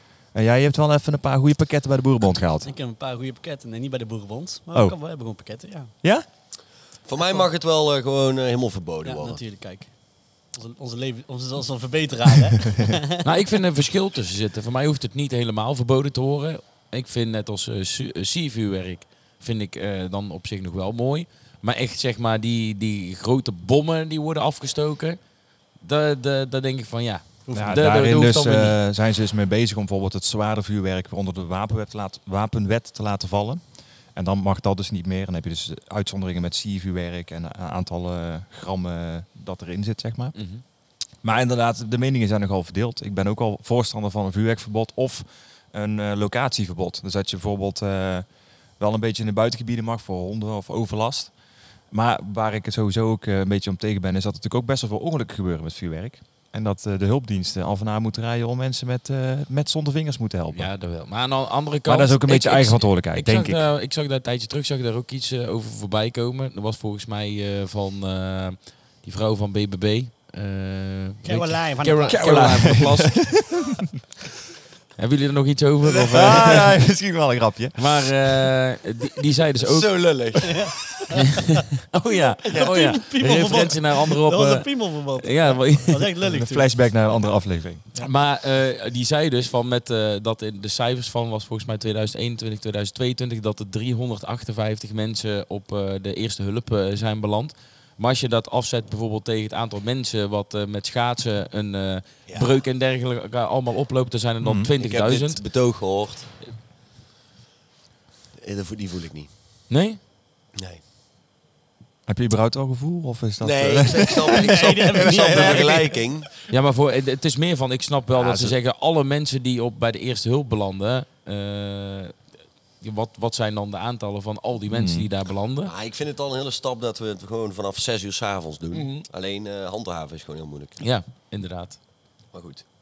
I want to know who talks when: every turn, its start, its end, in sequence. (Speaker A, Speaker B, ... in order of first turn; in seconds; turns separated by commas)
Speaker A: 0.3-2.7, Speaker B: 2.6-5.9, Speaker C: 7.0-9.4, Speaker B: 9.0-9.9, Speaker B: 10.5-13.2, Speaker D: 13.2-25.2, Speaker D: 25.8-28.8, Speaker A: 27.5-33.6, Speaker A: 34.1-40.4, Speaker D: 40.3-40.6, Speaker A: 41.2-48.3, Speaker A: 48.8-51.3, Speaker A: 51.9-60.7, Speaker D: 60.5-73.2, Speaker A: 61.9-63.6, Speaker B: 71.2-72.7, Speaker A: 72.1-73.8, Speaker D: 75.0-76.7, Speaker A: 76.1-78.1, Speaker D: 77.8-80.0, Speaker C: 79.6-80.8, Speaker B: 80.4-81.4, Speaker D: 81.1-86.1, Speaker B: 82.4-86.7, Speaker A: 86.2-88.0, Speaker D: 88.0-105.4, Speaker A: 104.4-104.7, Speaker C: 104.8-106.3, Speaker C: 108.4-109.3, Speaker D: 109.7-110.0, Speaker A: 112.1-116.0, Speaker C: 113.4-116.3, Speaker B: 114.3-116.0, Speaker D: 116.5-122.2, Speaker A: 118.1-118.5, Speaker D: 122.8-125.7, Speaker A: 124.7-125.1, Speaker C: 125.6-130.8, Speaker D: 130.8-131.8, Speaker C: 132.3-132.6